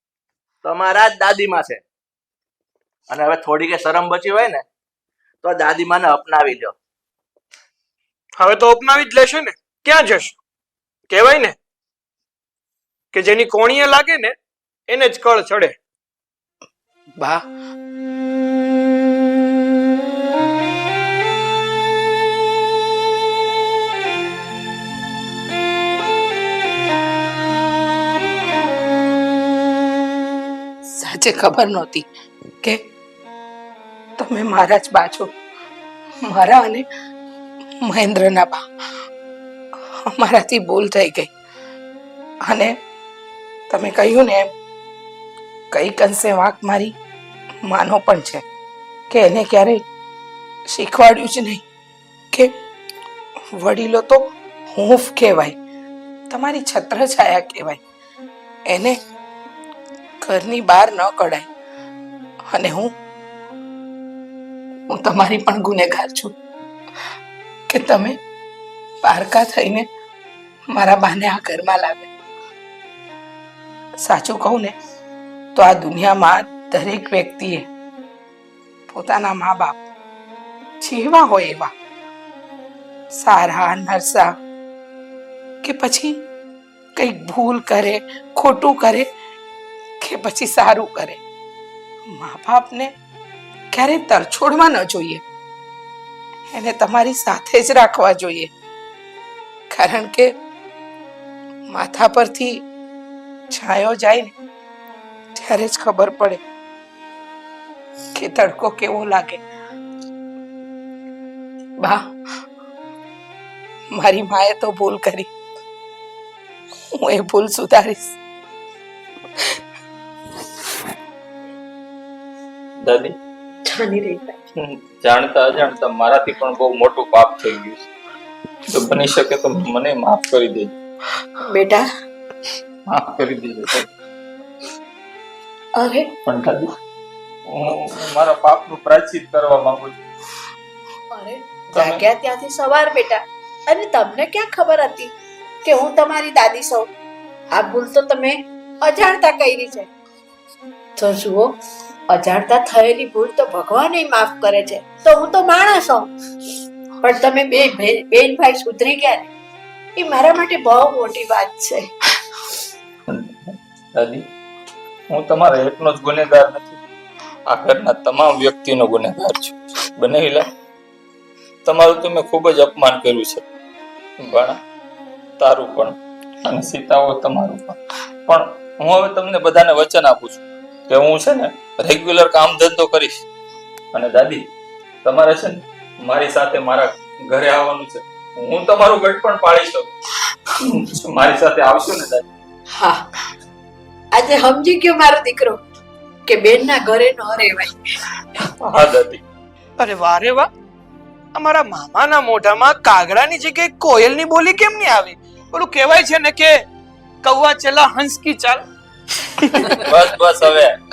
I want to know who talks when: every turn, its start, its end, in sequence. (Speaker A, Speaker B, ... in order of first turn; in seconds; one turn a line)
Speaker A: 0.6-1.8
Speaker A: 3.1-4.6
Speaker A: 5.4-6.8
Speaker B: 8.4-10.4
Speaker B: 11.1-11.6
Speaker B: 13.1-14.4
Speaker B: 14.9-15.8
Speaker C: 17.2-17.4
Speaker C: 30.9-32.1
Speaker C: 34.2-35.3
Speaker C: 36.2-36.9
Speaker C: 37.8-38.6
Speaker C: 40.1-41.3
Speaker C: 42.5-42.7
Speaker C: 43.7-44.5
Speaker C: 45.7-47.0
Speaker C: 47.7-48.5
Speaker C: 49.1-49.8
Speaker C: 50.7-51.6
Speaker C: 53.6-54.2
Speaker C: 54.7-55.6
Speaker C: 56.3-57.8
Speaker C: 58.7-59.0
Speaker C: 60.2-61.5
Speaker C: 62.5-62.9
Speaker C: 64.9-66.3
Speaker C: 67.7-68.2
Speaker C: 69.0-69.9
Speaker C: 70.7-72.1
Speaker C: 74.0-74.8
Speaker C: 75.5-77.7
Speaker C: 78.9-79.8
Speaker C: 80.8-81.7
Speaker C: 83.2-84.3
Speaker C: 85.6-86.2
Speaker C: 87.0-89.1
Speaker C: 90.0-91.2
Speaker C: 92.1-92.9
Speaker C: 93.7-95.2
Speaker C: 96.5-98.5
Speaker C: 99.7-100.3
Speaker C: 101.7-102.6
Speaker C: 103.5-104.3
Speaker C: 105.4-106.4
Speaker C: 108.2-109.4
Speaker C: 113.9-115.3
Speaker C: 117.0-118.2
Speaker D: 122.8-123.2
Speaker E: 123.7-124.3
Speaker D: 124.6-127.8
Speaker D: 128.7-130.7
Speaker E: 131.4-131.9
Speaker D: 132.9-133.9
Speaker E: 135.8-136.1
Speaker D: 136.3-136.7
Speaker D: 137.5-140.0
Speaker E: 141.1-145.1
Speaker D: 141.7-142.0
Speaker E: 145.6-146.9
Speaker E: 147.5-149.9
Speaker E: 151.0-151.5
Speaker E: 152.1-156.1
Speaker E: 157.0-159.3
Speaker E: 160.0-161.9
Speaker D: 163.1-164.2
Speaker D: 165.1-166.8
Speaker D: 167.5-170.5
Speaker D: 171.7-173.4
Speaker D: 174.2-174.6
Speaker D: 175.4-183.2
Speaker D: 183.9-184.5
Speaker D: 185.0-189.9
Speaker D: 190.6-192.3
Speaker E: 194.1-195.6
Speaker E: 196.3-197.8
Speaker D: 198.6-199.2
Speaker B: 199.8-200.5
Speaker B: 201.4-206.6
Speaker B: 207.2-208.7
Speaker D: 209.9-210.8